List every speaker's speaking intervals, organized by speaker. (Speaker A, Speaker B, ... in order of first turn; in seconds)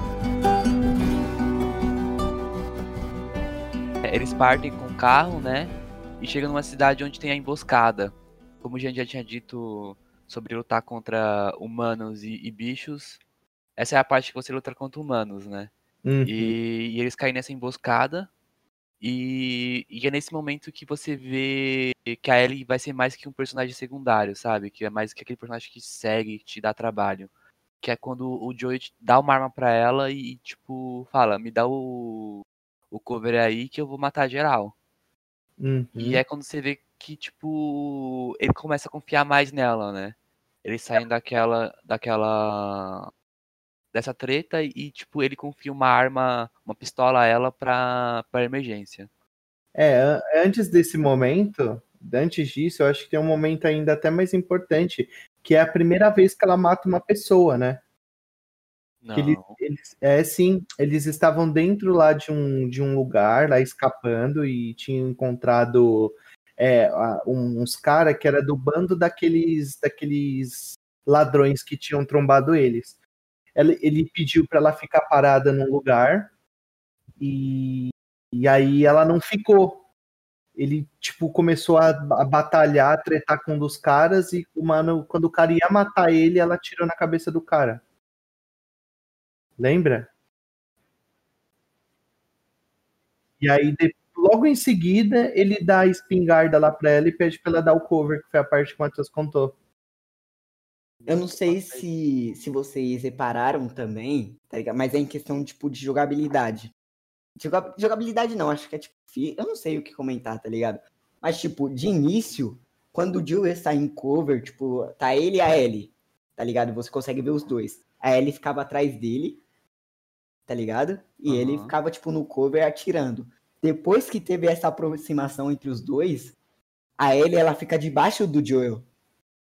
Speaker A: 4.0-13.2, 13.8-15.7, 16.2-18.3, 19.0-27.3, 27.8-34.7, 36.0-43.1, 43.9-49.1, 59.0-59.6, 101.0-101.8, 121.3-121.7
Speaker B: 16.0-16.5, 35.6-36.2, 49.7-57.8, 59.1-73.0, 73.5-76.3, 77.2-79.8, 80.5-87.8, 89.6-90.1, 93.4-99.5
Speaker C: 101.1-106.7, 107.4-119.4, 120.5-126.3, 127.0-128.9